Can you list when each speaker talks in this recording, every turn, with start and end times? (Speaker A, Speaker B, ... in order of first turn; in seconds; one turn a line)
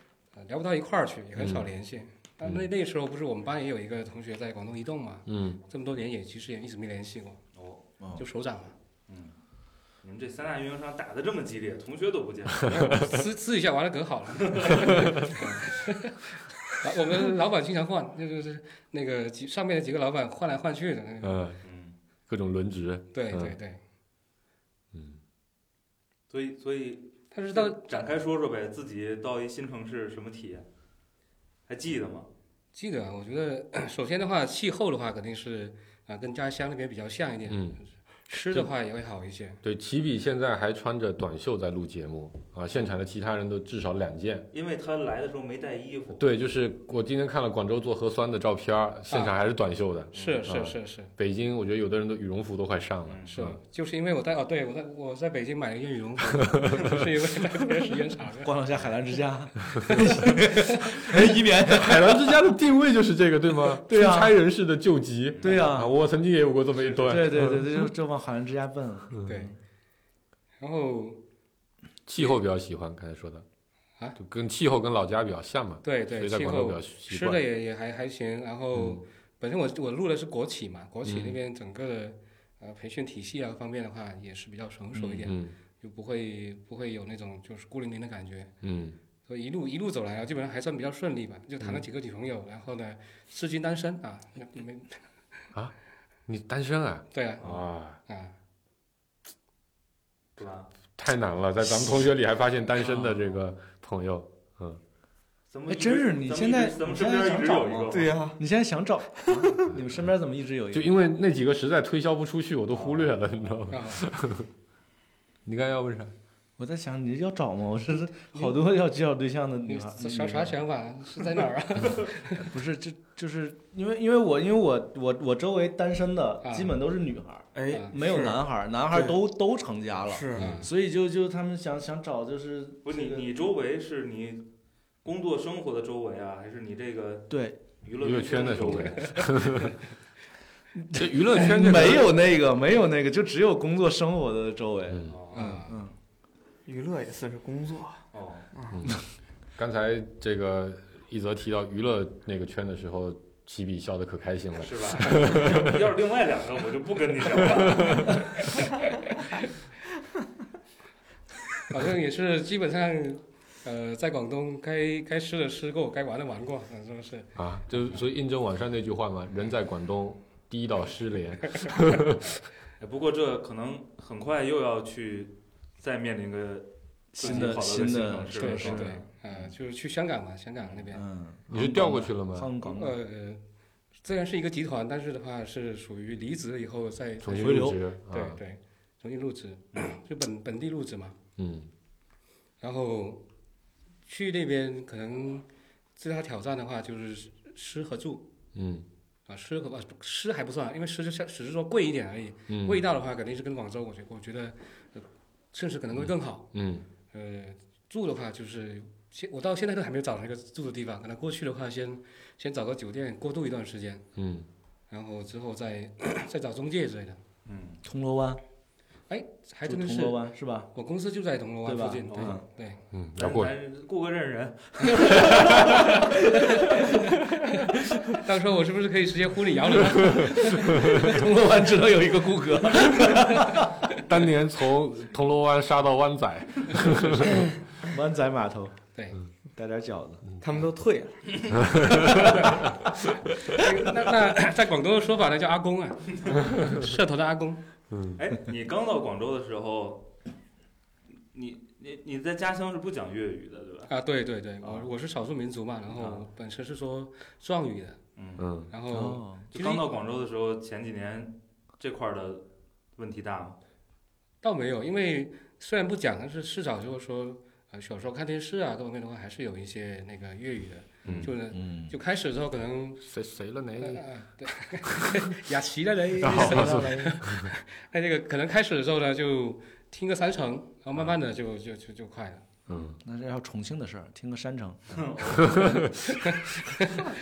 Speaker A: 0.3-7.4
Speaker B: 1.4-1.7
Speaker B: 5.3-5.6
Speaker C: 7.5-7.8
Speaker D: 8.0-8.2
Speaker A: 8.2-8.8
Speaker C: 9.1-9.3
Speaker C: 10.0-12.8
Speaker A: 12.7-16.2
Speaker B: 12.7-13.2
Speaker C: 14.4-15.6
Speaker A: 16.8-21.5
Speaker B: 21.2-21.6
Speaker C: 21.6-22.0
Speaker B: 22.3-23.6
Speaker A: 23.1-23.8
Speaker B: 24.9-25.2
Speaker C: 26.3-30.7
Speaker A: 27.3-28.0
Speaker C: 31.7-32.3
Speaker A: 32.7-39.6
Speaker B: 37.5-37.8
Speaker B: 38.3-38.7
Speaker B: 39.6-44.5
Speaker C: 44.5-46.2
Speaker B: 46.2-53.6
Speaker A: 50.1-51.1
Speaker C: 50.1-50.5
Speaker C: 53.1-53.4
Speaker A: 53.3-58.5
Speaker B: 56.5-56.9
Speaker D: 58.4-62.4
Speaker A: 60.0-60.3
Speaker B: 61.1-67.7
Speaker D: 63.7-64.4
Speaker C: 65.4-65.7
Speaker D: 65.4-65.9
Speaker D: 67.0-69.6
Speaker A: 69.2-69.5
Speaker A: 70.6-71.2
Speaker B: 72.1-73.5
Speaker B: 74.2-77.4
Speaker A: 75.8-88.5
Speaker B: 78.8-79.0
Speaker B: 81.0-81.4
Speaker B: 85.0-85.5
Speaker B: 88.6-89.0
Speaker A: 89.3-95.0
Speaker B: 96.3-98.0
Speaker A: 97.1-97.5
Speaker A: 98.1-98.3
Speaker C: 100.4-100.7
Speaker B: 101.0-104.8
Speaker C: 105.5-108.1
Speaker D: 105.7-110.9
Speaker E: 107.9-108.4
Speaker E: 109.3-109.7
Speaker B: 110.7-114.5
Speaker C: 112.7-113.2
Speaker A: 113.7-114.0
Speaker B: 115.5-116.1
Speaker D: 116.6-120.5
Speaker A: 119.7-122.5
Speaker D: 122.4-133.3
Speaker A: 126.4-126.7
Speaker E: 127.5-129.2
Speaker A: 127.7-128.0
Speaker E: 130.1-130.5
Speaker A: 130.4-130.7
Speaker C: 132.8-134.5
Speaker C: 135.0-139.4
Speaker D: 137.3-137.7
Speaker B: 138.0-139.8
Speaker D: 140.8-145.9
Speaker B: 140.9-142.1
Speaker B: 144.9-145.2
Speaker C: 145.1-145.5
Speaker A: 145.3-145.8
Speaker E: 146.7-148.0
Speaker C: 148.1-148.5
Speaker E: 148.5-148.8
Speaker B: 148.7-149.0
Speaker B: 149.6-155.8
Speaker C: 154.6-158.6
Speaker B: 157.4-158.1
Speaker A: 161.7-168.0
Speaker B: 167.4-172.3
Speaker C: 172.8-179.1
Speaker D: 177.1-179.0
Speaker A: 177.2-177.5
Speaker A: 178.4-181.0
Speaker D: 180.9-183.0
Speaker B: 181.5-182.5
Speaker A: 182.6-183.4
Speaker A: 184.0-191.2
Speaker B: 187.2-188.4
Speaker D: 187.3-187.8
Speaker B: 191.4-191.7
Speaker A: 192.6-193.2
Speaker A: 194.1-198.3
Speaker B: 198.5-198.9
Speaker A: 199.3-206.5
Speaker B: 202.5-202.8
Speaker B: 206.5-206.9
Speaker A: 207.1-214.1
Speaker B: 214.2-214.5
Speaker A: 214.9-217.2
Speaker C: 217.5-217.8
Speaker D: 217.8-218.4
Speaker A: 219.1-220.2
Speaker D: 219.7-220.7
Speaker A: 220.7-222.8
Speaker D: 221.6-222.4
Speaker C: 222.1-222.4
Speaker B: 222.9-223.5
Speaker C: 223.2-225.9
Speaker D: 225.0-227.1
Speaker A: 225.5-225.8
Speaker A: 226.3-231.2
Speaker D: 230.1-233.7
Speaker B: 234.0-237.5
Speaker D: 237.8-238.8
Speaker A: 238.9-239.2
Speaker D: 239.6-240.3
Speaker E: 240.4-241.8
Speaker B: 241.6-242.4
Speaker A: 242.4-242.7
Speaker A: 243.5-247.6
Speaker B: 247.9-248.2
Speaker C: 248.2-250.1
Speaker C: 251.3-253.9
Speaker A: 253.9-258.0
Speaker C: 254.6-254.9
Speaker C: 255.9-256.2
Speaker C: 258.2-258.5
Speaker B: 258.4-258.7
Speaker A: 258.7-259.8
Speaker D: 258.9-259.7
Speaker C: 259.5-262.4
Speaker C: 263.0-263.6
Speaker A: 264.4-273.0
Speaker C: 271.0-271.3
Speaker B: 271.1-271.3
Speaker D: 271.5-272.0
Speaker B: 273.0-274.1
Speaker A: 273.8-282.4
Speaker B: 274.9-275.3
Speaker B: 276.2-277.5
Speaker D: 276.2-277.2
Speaker B: 282.7-283.0
Speaker D: 283.0-285.0
Speaker C: 284.9-285.9
Speaker B: 285.4-286.1
Speaker A: 286.2-287.0